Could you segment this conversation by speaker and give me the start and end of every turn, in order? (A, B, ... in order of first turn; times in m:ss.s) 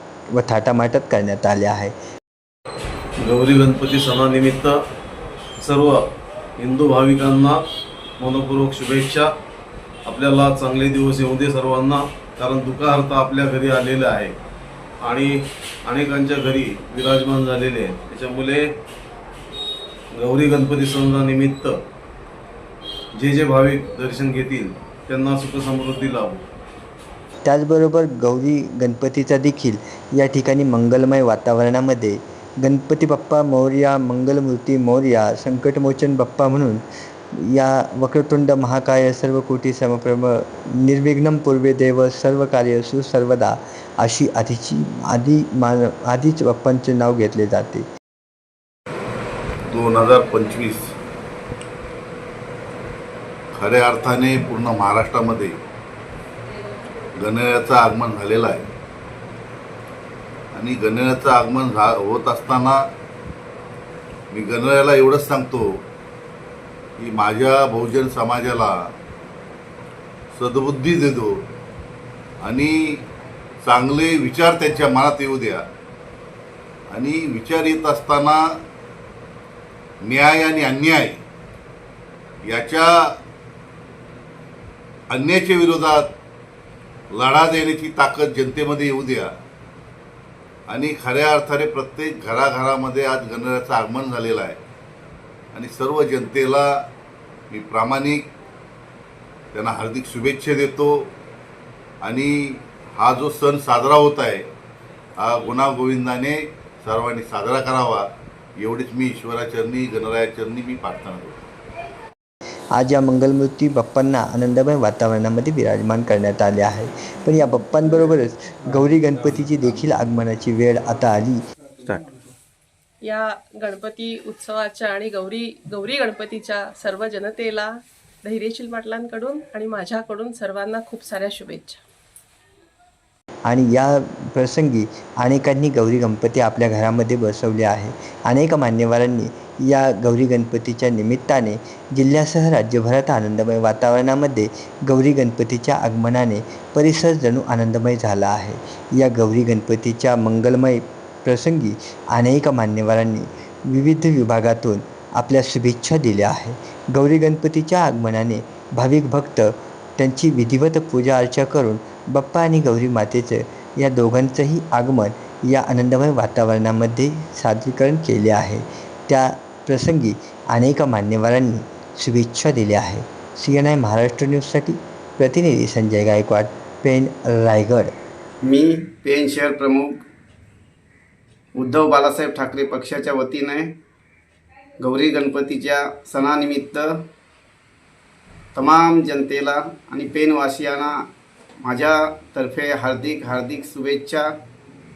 0:00.3-0:01.9 A
0:03.2-0:04.8 B
0:05.6-0:06.1 B
0:06.6-0:07.6 B
0:08.2-0:09.3 B
0:10.1-0:14.4 B
0:15.0-0:18.7 B
0:20.1-0:21.8 B
0:23.2-0:26.4 B
0:27.4-0:36.8 A
0:37.4-0:47.9 A
0:49.7-0:50.9 C
0:53.5-0:55.6 C
0:57.2-0:58.7 C
1:00.5-1:02.8 C
1:04.3-1:05.8 C
1:07.0-1:08.9 C
1:10.3-1:11.4 C
1:12.4-1:13.0 C
1:13.6-1:15.7 C
1:16.9-1:18.6 C
1:20.0-1:21.2 C
1:22.4-1:23.2 C
1:25.1-1:26.1 C
1:27.1-1:29.3 C
1:30.7-1:34.6 C
1:35.5-1:36.7 C
1:37.5-1:38.2 C
1:39.5-1:41.1 C
1:42.0-1:44.4 C
1:45.2-1:48.1 C
1:48.6-1:51.4 C
1:52.8-2:01.4 A
2:03.0-2:11.8 D
2:13.5-2:57.9 A
2:58.4-3:00.0 E
3:01.6-3:03.7 E
3:04.8-3:07.0 E
3:08.6-3:11.0 E
3:11.6-3:14.3 E